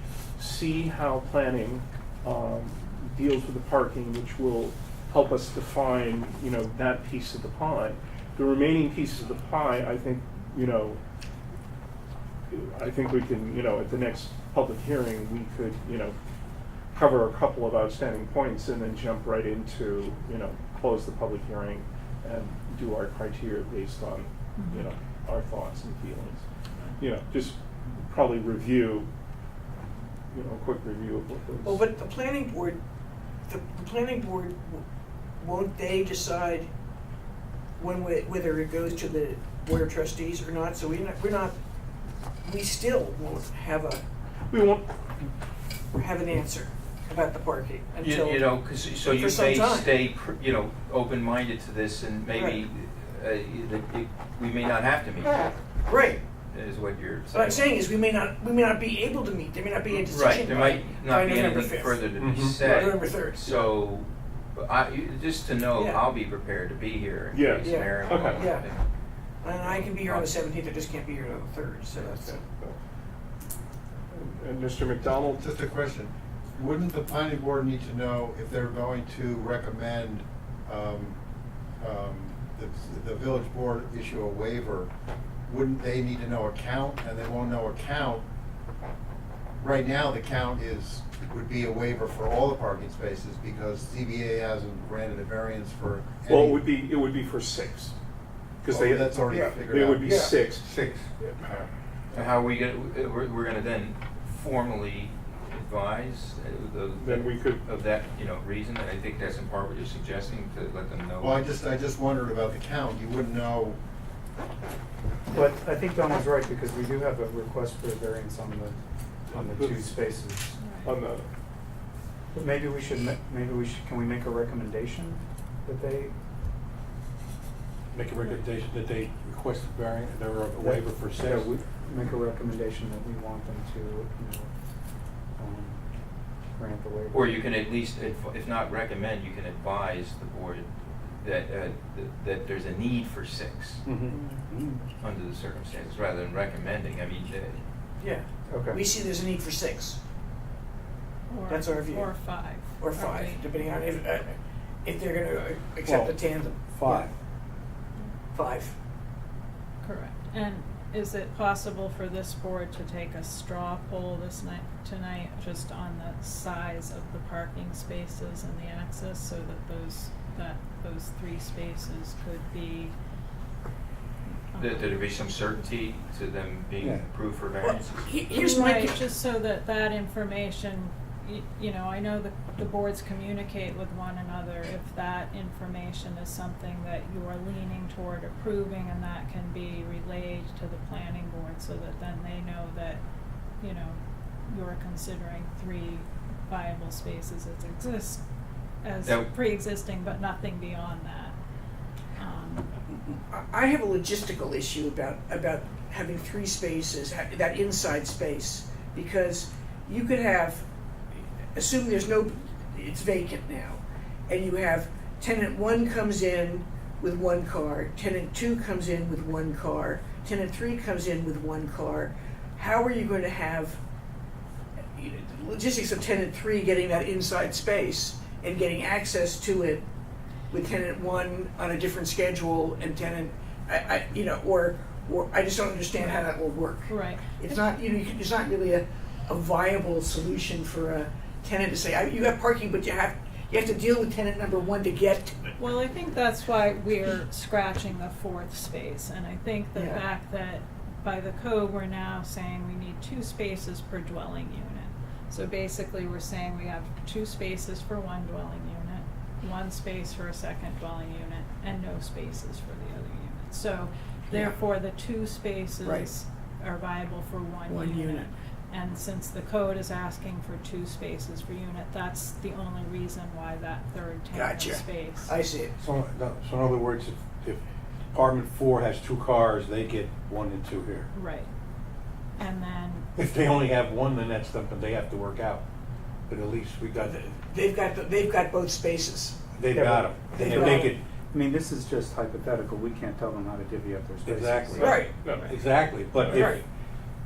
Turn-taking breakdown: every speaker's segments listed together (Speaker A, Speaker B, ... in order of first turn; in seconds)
Speaker A: 0.4-11.0, 12.5-16.1, 16.9-26.4, 27.0-29.1, 30.3-31.9, 44.5-45.3, 67.3-68.5, 71.9-72.8, 74.1-75.4, 96.2-97.9, 98.6-101.4, 106.9-107.7, 119.3-120.0, 120.8-121.3, 294.7-295.5, 296.1-296.5
Speaker B: 24.6-24.9, 120.6-120.9, 151.3-153.5, 159.8-172.9, 174.5-175.1, 178.3-193.0, 193.6-198.2, 198.8-201.3, 202.2-202.7, 236.9-237.5, 245.6-275.3, 281.1-281.5, 282.4-283.1
Speaker C: 31.6-32.8, 33.5-34.8, 35.4-36.7, 37.8-41.5, 42.4-44.0, 46.0-48.5, 49.0-49.9, 52.3-52.6, 55.9-56.2, 57.3-63.6, 65.7-66.0, 67.6-68.7, 69.4-72.4, 144.1-144.4, 148.0-150.0, 151.5-152.1, 152.8-157.1, 158.3-158.7, 177.6-179.0, 202.9-210.6, 211.5-223.8, 224.9-229.8, 230.5-245.5, 249.7-250.0, 267.6-268.3, 274.3-275.7, 287.0-289.4, 290.3-290.9, 294.8-295.2, 296.3-296.6
Speaker D: 48.0-55.5, 56.5-57.7, 60.1-68.8, 69.6-70.3, 102.1-111.4, 137.1-143.8, 145.0-147.6, 174.6-178.1, 199.0-199.3
Speaker E: 62.1-62.7, 99.3-101.1, 127.9-131.5, 143.8-144.2, 155.8-157.1, 275.8-277.6, 278.1-281.1, 283.1-285.6, 286.3-287.2, 289.5-291.0, 294.2-296.6
Speaker F: 75.1-81.2, 81.8-84.9, 85.5-88.2, 89.6-96.6, 98.7-100.2, 111.2-113.8
Speaker G: 115.3-118.8, 119.3-120.6, 122.3-126.1, 130.6-134.5, 135.4-135.8, 136.6-137.4, 144.5-144.8, 148.5-148.8, 289.7-290.4, 291.3-294.9